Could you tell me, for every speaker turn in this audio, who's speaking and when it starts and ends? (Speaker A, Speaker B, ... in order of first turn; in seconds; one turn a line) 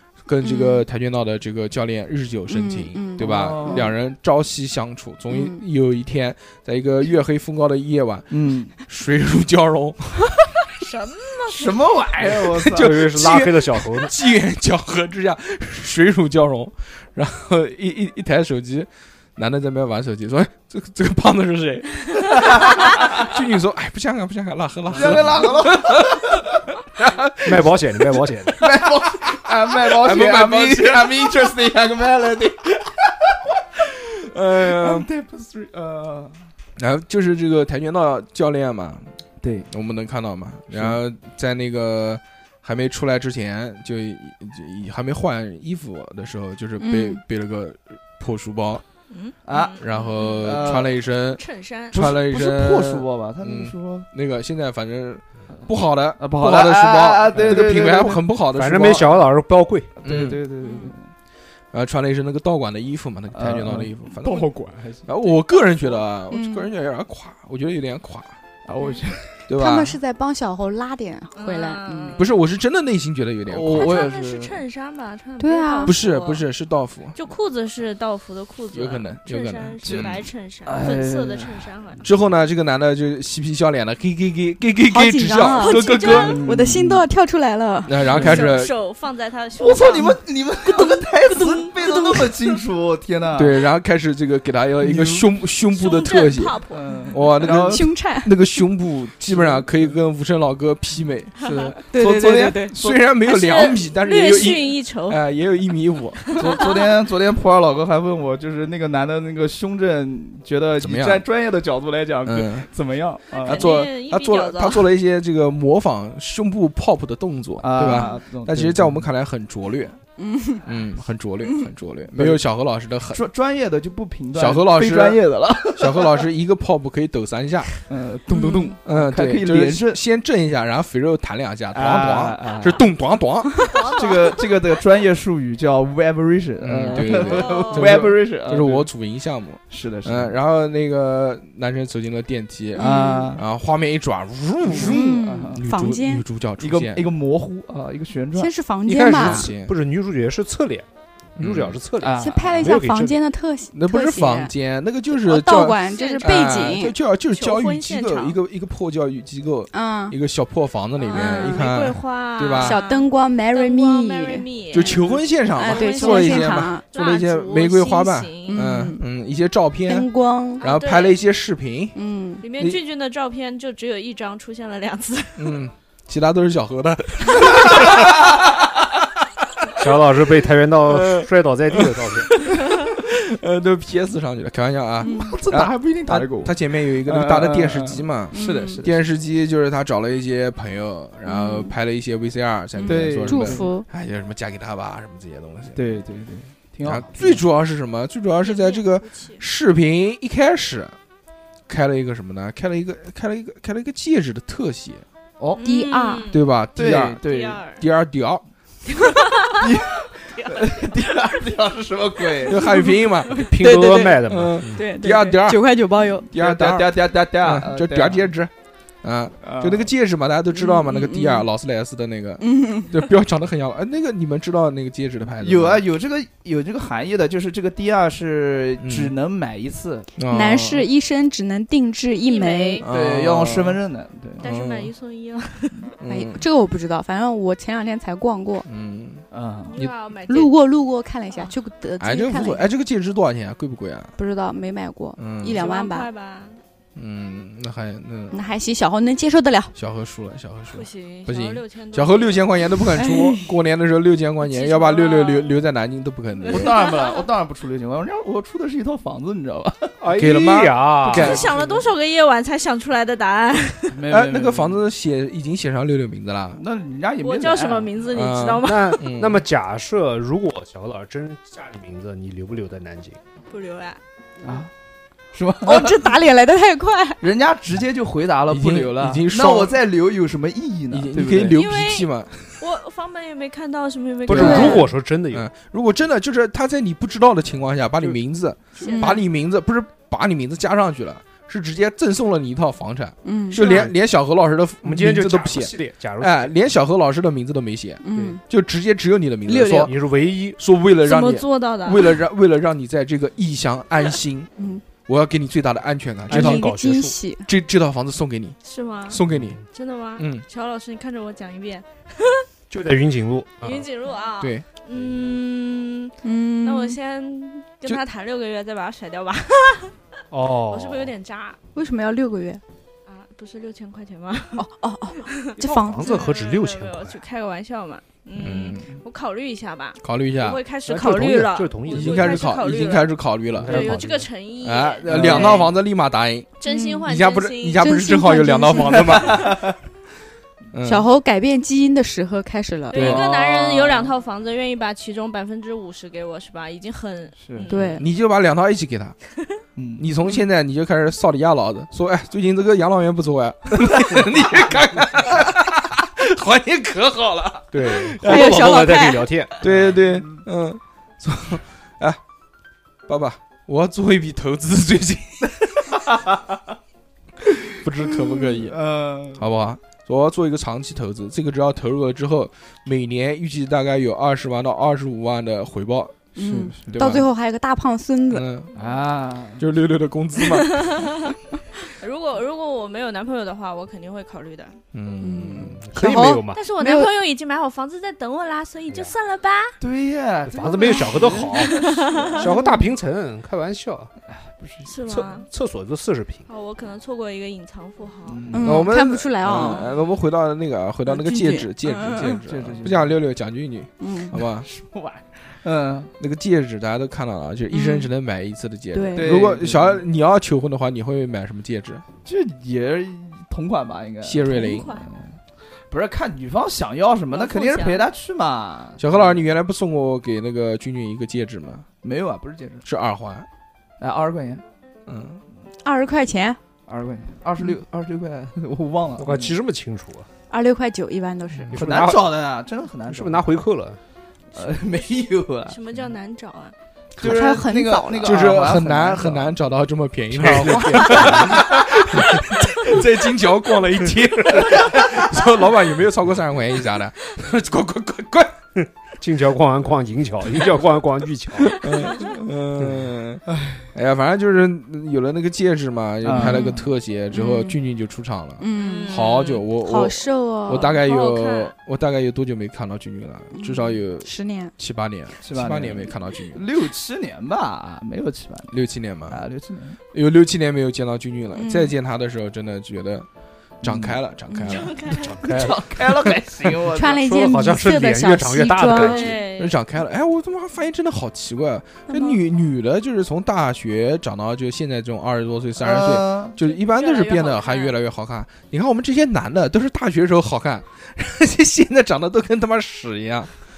Speaker A: 0.2-10.4
Speaker B: 0.4-0.8
Speaker B: 2.5-3.9
Speaker C: 3.2-3.9
Speaker B: 5.3-5.6
Speaker C: 8.3-8.7
Speaker D: 10.8-11.8
Speaker C: 11.5-13.1
Speaker A: 12.2-26.4
Speaker E: 12.7-14.1
Speaker C: 22.5-23.2
Speaker C: 24.9-26.4
Speaker A: 26.9-28.2
Speaker E: 27.4-28.6
Speaker C: 28.6-33.4
Speaker A: 29.2-31.3
Speaker A: 34.2-35.1
Speaker C: 34.5-36.4
Speaker A: 36.8-39.0
Speaker C: 39.4-39.7
Speaker A: 39.7-48.8
Speaker C: 40.7-41.0
Speaker B: 46.8-47.2
Speaker D: 49.1-50.9
Speaker C: 49.5-49.8
Speaker A: 49.8-59.1
Speaker C: 50.4-50.9
Speaker D: 51.4-52.0
Speaker C: 51.9-54.1
Speaker C: 56.2-58.2
Speaker E: 58.5-59.9
Speaker C: 60.0-61.1
Speaker A: 60.0-60.4
Speaker A: 61.7-64.5
Speaker C: 63.3-65.1
Speaker A: 65.0-68.3
Speaker D: 65.5-65.8
Speaker B: 66.3-66.7
Speaker C: 68.7-69.5
Speaker A: 69.5-70.0
Speaker B: 69.5-72.1
Speaker D: 71.3-72.4
Speaker A: 72.2-74.0
Speaker C: 73.5-74.6
Speaker D: 73.7-76.4
Speaker B: 75.4-76.0
Speaker A: 75.8-77.2
Speaker D: 77.1-82.0
Speaker A: 78.7-80.3
Speaker C: 79.8-80.1
Speaker C: 80.7-81.7
Speaker A: 82.0-86.4
Speaker B: 84.9-88.0
Speaker D: 85.5-86.4
Speaker C: 86.1-87.0
Speaker A: 87.8-88.7
Speaker D: 88.1-92.6
Speaker C: 88.1-88.4
Speaker C: 89.6-93.6
Speaker A: 93.3-96.6
Speaker C: 94.8-95.3
Speaker D: 95.7-97.1
Speaker C: 96.7-97.9
Speaker A: 97.1-106.3
Speaker B: 97.3-98.4
Speaker C: 99.3-99.9
Speaker C: 101.3-103.0
Speaker B: 101.9-102.7
Speaker D: 103.2-105.2
Speaker D: 106.3-106.7
Speaker C: 106.3-113.7
Speaker A: 110.8-111.2
Speaker A: 112.2-112.7
Speaker A: 113.4-120.0
Speaker D: 113.4-114.8
Speaker C: 117.6-119.0
Speaker B: 117.8-118.2
Speaker B: 120.2-120.6
Speaker A: 120.6-123.2
Speaker B: 121.4-121.7
Speaker C: 122.1-122.4
Speaker C: 123.1-126.2
Speaker A: 124.3-127.8
Speaker C: 127.9-130.0
Speaker B: 128.3-128.8
Speaker A: 128.8-133.8
Speaker C: 131.7-132.9
Speaker D: 133.6-134.5
Speaker C: 133.9-138.9
Speaker A: 136.6-147.1
Speaker D: 137.1-138.0
Speaker C: 139.7-140.3
Speaker B: 142.8-143.3
Speaker C: 142.8-143.4
Speaker C: 144.6-145.6
Speaker B: 144.7-146.2
Speaker C: 146.6-148.5
Speaker B: 148.3-149.5
Speaker E: 148.8-153.2
Speaker A: 149.1-149.7
Speaker A: 151.4-151.8
Speaker C: 152.0-152.7
Speaker B: 152.2-154.5
Speaker A: 153.7-162.8
Speaker B: 155.1-156.9
Speaker D: 155.9-156.8
Speaker D: 157.3-158.4
Speaker B: 159.7-160.2
Speaker D: 161.0-168.6
Speaker B: 161.1-161.7
Speaker B: 162.5-164.4
Speaker A: 164.7-170.1
Speaker B: 165.6-166.8
Speaker B: 168.5-169.0
Speaker B: 169.9-170.6
Speaker D: 170.6-171.2
Speaker A: 170.6-172.0
Speaker B: 171.9-172.4
Speaker D: 172.4-175.6
Speaker A: 175.4-178.5
Speaker E: 179.8-182.3
Speaker A: 180.9-195.8
Speaker B: 185.0-185.3
Speaker C: 185.1-189.0
Speaker B: 188.3-188.8
Speaker B: 191.2-191.7
Speaker B: 192.8-193.8
Speaker C: 192.8-193.7
Speaker C: 195.7-197.4
Speaker A: 196.8-200.9
Speaker D: 198.4-199.4
Speaker A: 201.7-205.0
Speaker D: 205.6-206.4
Speaker B: 205.6-206.3
Speaker A: 206.3-208.4
Speaker C: 206.8-207.6
Speaker D: 207.2-207.8
Speaker D: 208.9-209.7
Speaker C: 209.6-212.6
Speaker D: 210.3-210.8
Speaker A: 212.5-213.4
Speaker B: 212.5-216.3
Speaker E: 213.3-214.8
Speaker A: 214.3-218.5
Speaker C: 216.3-218.3
Speaker A: 219.0-225.8
Speaker C: 219.4-219.9
Speaker B: 220.5-221.5
Speaker B: 222.4-223.0
Speaker C: 225.4-230.1
Speaker A: 228.8-229.1
Speaker A: 230.2-230.9
Speaker B: 230.3-232.8
Speaker D: 232.2-232.8
Speaker A: 232.8-233.8
Speaker C: 232.9-234.4
Speaker D: 234.4-235.9
Speaker A: 234.4-234.9
Speaker A: 236.0-236.4
Speaker B: 236.1-238.7
Speaker A: 238.7-239.2
Speaker C: 239.3-239.8
Speaker D: 239.7-240.6
Speaker B: 240.3-242.6
Speaker A: 242.0-244.1
Speaker B: 244.2-246.1
Speaker A: 245.2-245.6
Speaker D: 245.5-246.6
Speaker A: 246.9-248.4
Speaker B: 248.3-249.7
Speaker A: 249.7-256.8
Speaker D: 250.7-252.9
Speaker B: 253.0-253.4
Speaker D: 254.4-255.5
Speaker D: 256.4-257.2
Speaker C: 256.5-259.9
Speaker E: 260.0-261.5
Speaker A: 260.1-261.4
Speaker D: 261.1-263.9
Speaker C: 261.1-261.8
Speaker C: 263.9-264.8
Speaker A: 264.1-266.6
Speaker C: 266.5-267.9
Speaker D: 267.2-269.0
Speaker A: 268.1-269.4
Speaker E: 268.6-273.2
Speaker D: 273.5-274.0
Speaker C: 274.4-274.7
Speaker C: 275.3-276.1
Speaker B: 275.6-277.2
Speaker C: 277.2-281.6
Speaker A: 278.5-279.8
Speaker A: 280.9-282.4
Speaker D: 281.5-284.9
Speaker E: 284.2-285.5
Speaker B: 284.3-284.9
Speaker A: 284.4-284.7
Speaker A: 285.3-299.9
Speaker D: 288.8-289.2
Speaker B: 288.8-289.2
Speaker B: 293.2-293.6
Speaker E: 293.6-293.9
Speaker E: 294.8-296.5
Speaker B: 298.0-298.4
Speaker B: 299.5-299.9
Speaker E: 299.8-300.6
Speaker A: 300.6-304.5
Speaker D: 301.0-302.2
Speaker B: 304.6-304.8
Speaker A: 305.1-306.7
Speaker E: 306.3-307.1
Speaker B: 306.3-307.5
Speaker A: 307.4-308.6
Speaker D: 308.6-309.2
Speaker A: 309.1-309.6
Speaker E: 309.3-309.6
Speaker D: 309.7-312.4
Speaker A: 310.2-310.4
Speaker E: 312.7-313.9
Speaker D: 313.6-319.9
Speaker A: 314.4-314.6
Speaker E: 314.9-315.4
Speaker B: 316.2-317.0
Speaker E: 320.3-321.1
Speaker D: 320.7-321.6
Speaker B: 321.7-322.6
Speaker D: 323.1-324.6
Speaker B: 324.6-326.3
Speaker D: 325.2-325.5
Speaker E: 325.6-327.2
Speaker D: 326.0-333.1
Speaker A: 328.4-328.9
Speaker A: 330.0-330.6
Speaker E: 330.9-332.5
Speaker A: 331.9-333.9
Speaker E: 333.5-334.3
Speaker D: 333.7-335.7
Speaker A: 334.6-336.5
Speaker E: 335.1-335.6
Speaker D: 336.6-337.9
Speaker B: 336.6-337.0
Speaker A: 337.0-339.6
Speaker B: 337.8-339.4
Speaker C: 339.4-339.7
Speaker A: 340.7-341.1
Speaker B: 340.8-343.2
Speaker D: 342.9-348.0
Speaker A: 342.9-343.2
Speaker C: 343.0-344.1
Speaker C: 347.4-347.7
Speaker B: 347.7-348.1
Speaker A: 348.0-349.1
Speaker C: 349.8-350.1
Speaker A: 350.0-358.7
Speaker E: 357.7-359.7
Speaker B: 358.2-359.3
Speaker A: 359.6-362.2
Speaker C: 359.6-360.4
Speaker A: 363.1-365.9
Speaker A: 367.8-368.8
Speaker C: 368.6-369.5
Speaker A: 369.4-376.3
Speaker B: 376.4-378.5
Speaker C: 376.4-377.1
Speaker A: 376.9-377.3
Speaker A: 378.3-378.7
Speaker C: 378.8-379.6
Speaker A: 379.6-381.1
Speaker D: 380.7-381.1
Speaker D: 381.9-384.8
Speaker A: 384.9-385.8
Speaker B: 385.2-387.1
Speaker E: 385.8-386.7
Speaker D: 386.5-389.8
Speaker E: 388.9-389.1
Speaker C: 389.8-392.4
Speaker E: 390.5-391.8
Speaker D: 391.5-392.5
Speaker E: 392.4-394.1
Speaker B: 392.4-392.9
Speaker C: 394.3-394.9
Speaker D: 394.9-395.5
Speaker E: 395.1-396.4
Speaker D: 396.5-398.5
Speaker C: 398.2-398.9
Speaker B: 398.5-399.9
Speaker A: 398.6-404.7
Speaker D: 399.6-399.9
Speaker B: 401.1-402.4
Speaker C: 402.3-403.2
Speaker B: 404.0-404.4
Speaker C: 404.6-406.1
Speaker A: 406.2-412.0
Speaker B: 407.7-408.1
Speaker B: 408.9-409.4
Speaker C: 409.1-410.0
Speaker C: 412.2-415.4
Speaker A: 414.2-414.9
Speaker D: 414.5-415.1
Speaker C: 415.9-419.4
Speaker D: 417.3-418.0
Speaker A: 419.0-421.9
Speaker C: 422.0-422.8
Speaker A: 422.8-423.5
Speaker C: 424.0-424.6
Speaker A: 425.1-425.4
Speaker B: 425.8-426.6
Speaker C: 426.9-429.6
Speaker E: 429.2-430.3
Speaker B: 430.5-431.8
Speaker E: 431.7-432.3
Speaker C: 431.7-433.5
Speaker E: 433.1-434.0
Speaker C: 434.5-435.8
Speaker D: 435.7-436.7
Speaker C: 437.2-439.6
Speaker B: 437.2-438.4
Speaker A: 438.2-448.6
Speaker E: 440.3-441.7
Speaker E: 449.2-451.9
Speaker A: 451.6-453.4
Speaker C: 453.5-453.9
Speaker A: 453.9-466.6
Speaker C: 456.2-456.7
Speaker B: 456.3-457.8
Speaker B: 458.6-460.9
Speaker D: 458.8-459.6
Speaker D: 460.7-461.7
Speaker B: 463.5-464.7
Speaker C: 465.4-468.8
Speaker A: 468.7-469.4
Speaker C: 469.3-470.0
Speaker A: 470.1-473.3
Speaker B: 471.5-471.9
Speaker A: 473.8-475.0
Speaker C: 473.8-474.2
Speaker B: 474.5-474.9
Speaker D: 474.6-475.4
Speaker E: 475.2-475.8
Speaker C: 475.4-477.2
Speaker B: 476.9-479.3
Speaker E: 477.1-479.4
Speaker D: 478.8-479.8
Speaker A: 479.4-493.5
Speaker B: 482.1-482.4
Speaker C: 485.8-486.6
Speaker D: 486.6-488.0